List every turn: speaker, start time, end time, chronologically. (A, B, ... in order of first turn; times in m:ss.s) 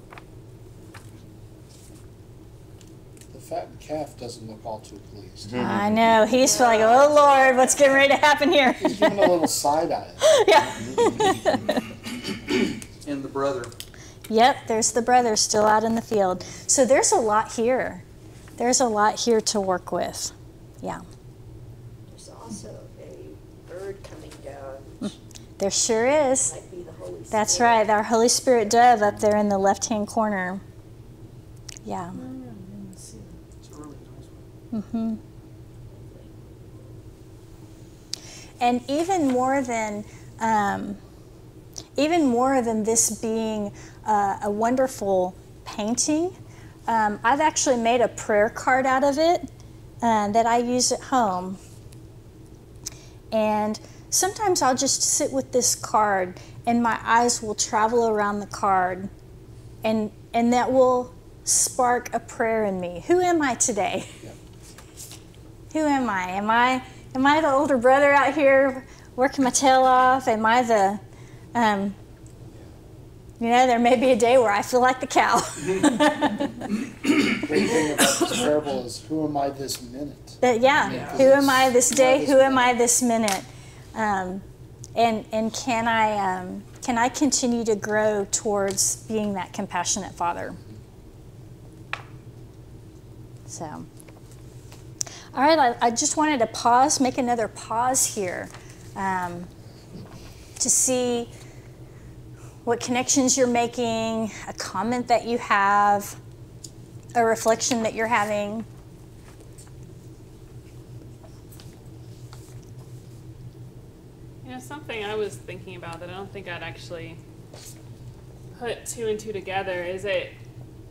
0:03.3-0:05.9 A
0:05.5-0:09.3 B
0:06.5-0:07.7 C
0:08.8-0:10.2 A
0:10.2-0:11.8 B
0:10.9-0:11.5 A
0:13.0-0:13.7 D
0:14.3-0:18.0 B
0:18.6-0:21.0 B
0:22.1-0:25.2 C
0:25.0-0:26.5 B
0:26.4-0:27.9 C
0:27.3-0:30.6 B
0:31.8-0:32.2 B
0:33.0-0:34.4 D
0:34.7-0:35.2 B
0:35.9-0:36.3 C
0:38.6-0:41.0 B
0:42.0-0:46.3 B
0:46.9-0:49.5 B
0:50.0-0:51.6 B
0:53.3-0:59.1 B
0:59.8-1:04.2 B
1:05.7-1:11.0 B
1:11.5-1:12.0 B
1:13.4-1:16.6 B
1:17.3-1:22.7 A
1:20.4-1:24.4 B
1:24.9-1:30.6 B
1:33.5-1:33.9 B
1:35.3-1:39.5 B
1:40.6-1:41.3 B
1:42.6-1:46.2 B
1:47.1-1:48.7 B
1:54.4-1:57.2 E
1:58.5-2:00.3 E